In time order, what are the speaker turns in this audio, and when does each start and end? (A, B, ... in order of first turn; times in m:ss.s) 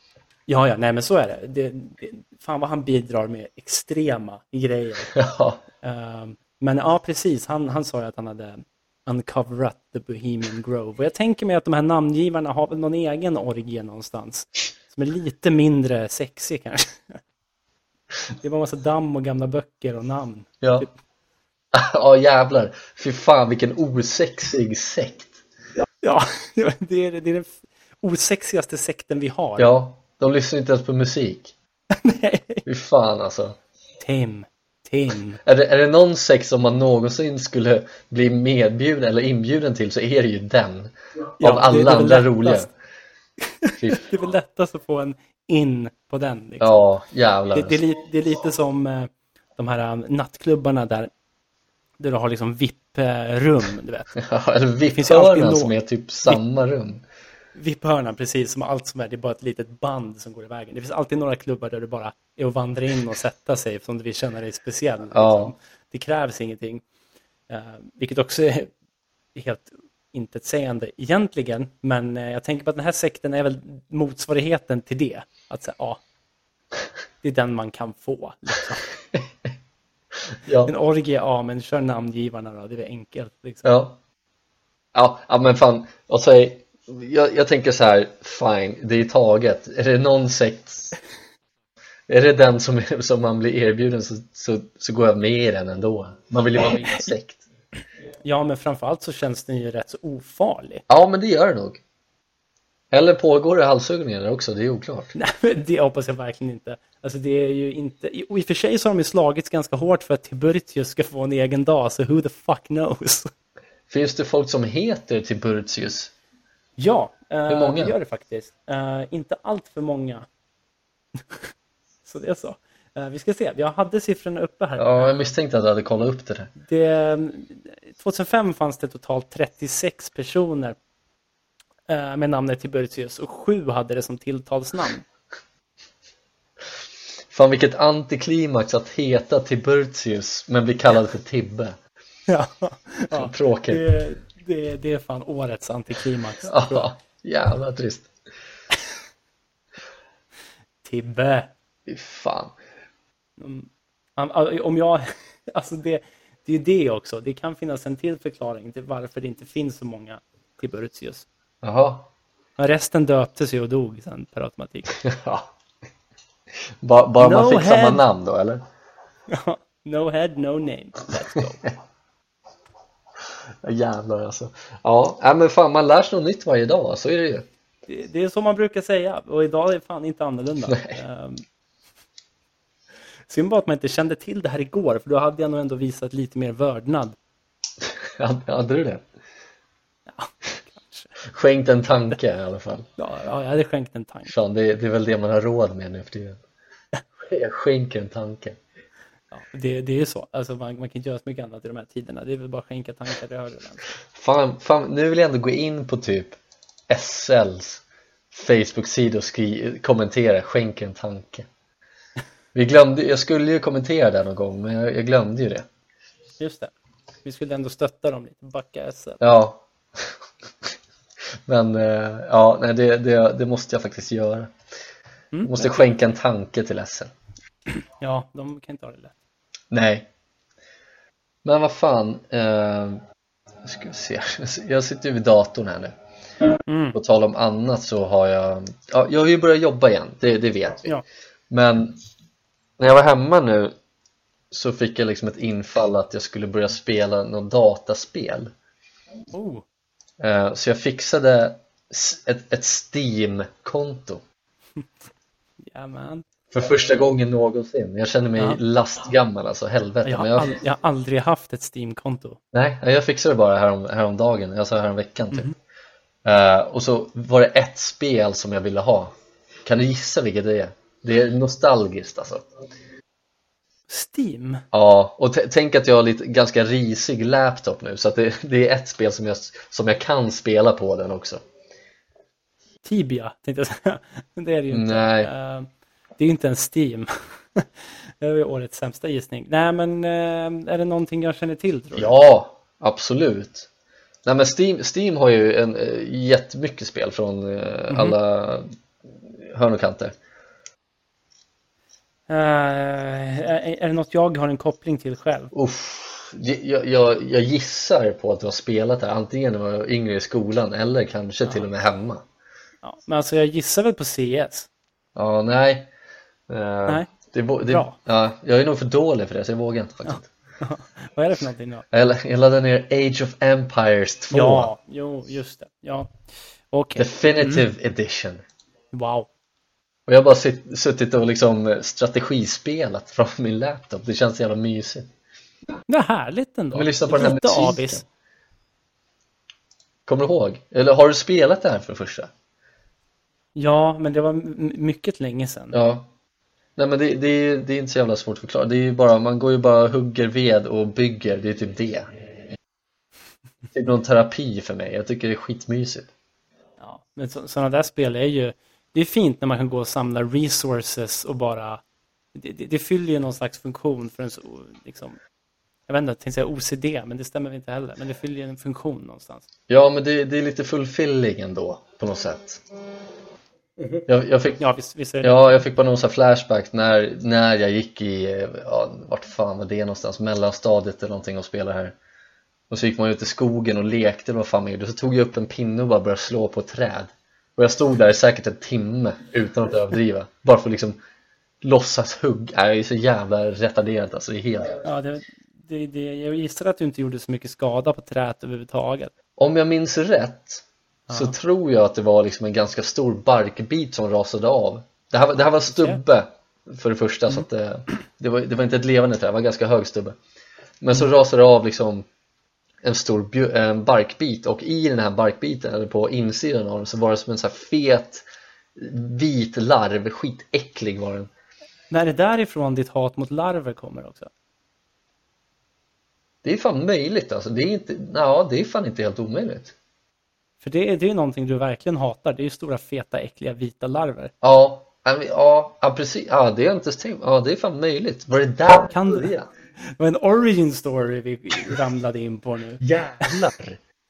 0:00.5-0:05.1 A
0:05.1-0:05.6 B
0:05.8-0:17.2 A
0:18.4-0:20.9 A
0:20.6-0:20.9 B
0:21.7-0:25.4 B
0:26.0-0:29.7 A
0:29.6-0:31.5 B
0:31.9-0:32.6 A
0:32.7-0:33.6 B
0:34.0-0:35.4 A
0:35.4-0:42.7 B
0:41.4-0:42.7 A
0:43.5-0:46.8 A
0:43.8-0:44.0 B
0:46.6-0:47.8 B
0:47.5-0:51.1 A
0:52.0-0:54.1 A
0:54.2-0:57.0 B
0:54.9-0:55.7 A
0:57.6-1:06.8 A
1:05.1-1:05.5 B
1:07.5-1:08.7 A
1:09.4-1:16.0 A
1:17.2-1:18.9 A
1:20.4-1:20.7 B
1:20.7-1:23.7 A
1:23.6-1:24.0 B
1:24.9-1:30.9 B
1:32.1-1:37.4 B
1:38.2-1:40.8 A
1:40.9-1:41.8 B
1:42.9-1:45.1 B
1:45.2-1:53.3 A
1:53.9-1:56.1 B
1:56.8-2:00.3 A
1:57.5-1:58.0 B
2:02.0-2:05.2 A
2:04.8-2:06.5 B
2:06.6-2:10.8 A
2:11.9-2:15.0 A
2:17.3-2:21.8 B
2:22.3-2:26.9 A
2:23.1-2:23.8 B
2:26.4-2:28.1 B
2:30.8-2:31.5 A
2:31.9-2:32.6 B
2:33.4-2:41.3 A
2:41.6-2:42.1 B
2:42.6-2:45.0 A
2:45.0-2:45.5 B
2:46.8-2:48.6 B
2:47.2-2:48.0 A
2:49.3-2:51.7 A
2:53.6-2:57.5 B
2:57.9-3:01.4 A
3:00.7-3:01.0 B
3:03.3-3:07.2 A
3:08.0-3:09.0 B
3:10.1-3:11.2 A
3:11.3-3:12.9 B
3:13.0-3:14.3 A
3:14.3-3:16.4 B
3:17.2-3:18.6 B
3:19.3-3:23.8 A
3:24.2-3:26.4 B
3:26.9-3:31.5 B
3:32.5-3:35.7 B
3:36.4-3:36.7 A
3:37.2-3:39.2 A
3:39.2-3:40.7 B
3:41.5-3:44.5 B
3:45.3-3:45.8 A
3:45.4-3:47.1 B
3:47.8-3:49.2 A
3:49.7-3:50.1 B
3:51.4-3:53.0 B
3:53.6-3:56.0 B
3:56.7-3:57.0 A
3:57.0-4:00.9 B
4:01.5-4:02.0 B
4:02.8-4:03.7 B
4:04.5-4:08.5 B
4:09.3-4:09.6 A
4:10.2-4:14.2 B
4:15.7-4:16.3 A
4:16.5-4:20.6 B
4:20.0-4:22.4 A
4:22.5-4:25.5 B
4:26.2-4:29.1 B
4:29.6-4:32.5 B
4:33.9-4:34.6 A
4:34.7-4:41.4 B
4:42.8-4:52.1 A
4:44.7-4:45.3 B
4:52.0-4:53.7 B
4:54.2-4:58.7 B
4:57.9-4:58.2 A
4:59.4-5:00.1 B
5:02.3-5:05.5 A
5:05.5-5:12.2 B
5:12.8-5:14.7 A
5:15.2-5:15.9 B
5:16.5-5:20.3 B
5:17.7-5:18.0 A
5:20.1-5:21.8 A
5:21.9-5:24.7 B
5:24.3-5:26.1 A
5:26.7-5:27.7 A
5:27.0-5:28.4 B
5:28.9-5:29.3 A
5:30.1-5:35.1 B
5:35.9-5:38.0 A
5:36.7-5:38.0 B
5:40.1-5:42.3 B
5:43.6-5:45.8 A
5:45.7-5:46.1 B
5:46.8-5:52.1 B
5:53.7-5:56.1 B
5:56.8-6:01.8 A
6:02.3-6:05.2 A
6:05.9-6:09.5 A
6:09.7-6:12.6 B
6:13.8-6:14.0 A
6:14.1-6:14.6 B
6:14.6-6:15.6 A
6:15.2-6:22.0 B
6:22.7-6:31.0 B
6:31.6-6:34.8 B
6:34.8-6:39.1 A
6:39.4-6:50.2 B
6:41.1-6:41.4 A
6:45.5-6:46.0 A
6:50.8-6:52.1 B
6:52.8-6:58.2 B
6:58.8-7:01.3 B
7:01.9-7:04.3 A
7:06.4-7:09.8 B
7:10.6-7:14.3 A
7:14.4-7:19.5 B
7:18.9-7:23.3 A
7:22.8-7:23.8 B